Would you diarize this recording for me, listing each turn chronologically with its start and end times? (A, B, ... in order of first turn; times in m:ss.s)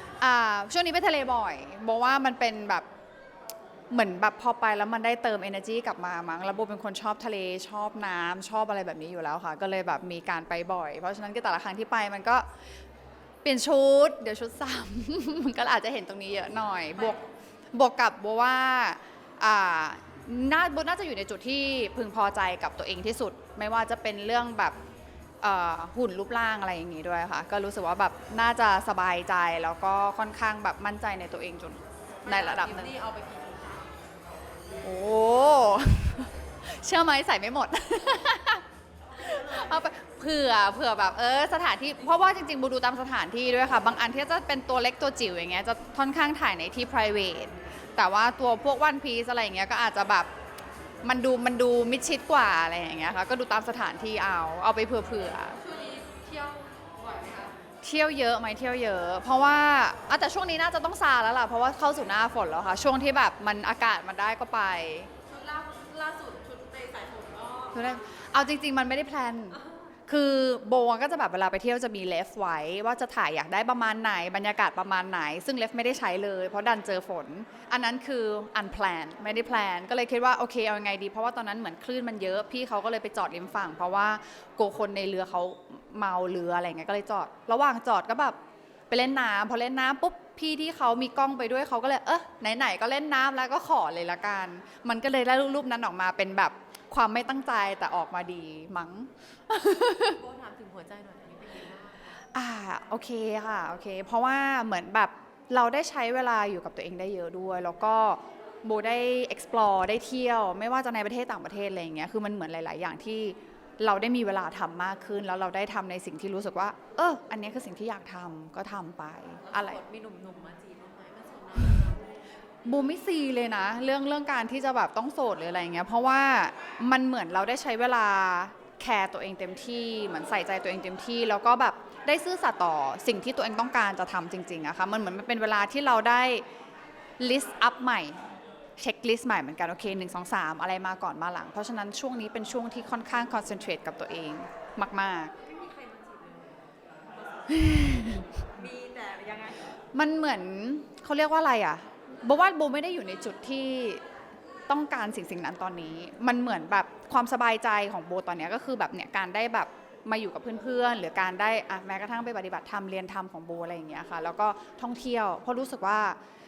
0:00.2-0:02.9 A
0:03.9-0:12.5 A
0:13.4-0:17.2 A
0:17.0-0:17.3 B
0:17.7-0:24.8 A
0:25.4-0:33.0 A
0:32.2-0:34.0 B
0:34.8-0:38.6 A
0:39.2-0:50.3 A
0:51.0-0:55.6 A
0:55.6-0:57.6 B
0:57.8-1:05.1 A
1:05.3-1:08.0 B
1:07.7-1:28.4 A
1:28.9-1:40.2 A
1:40.1-1:42.2 B
1:42.3-1:59.8 A
1:59.4-2:02.1 B
2:02.6-2:16.4 A
2:17.2-2:18.2 A
2:18.8-2:25.3 A
2:25.4-2:29.8 B
2:27.5-2:28.2 A
2:29.9-2:34.0 A
2:34.7-2:46.2 A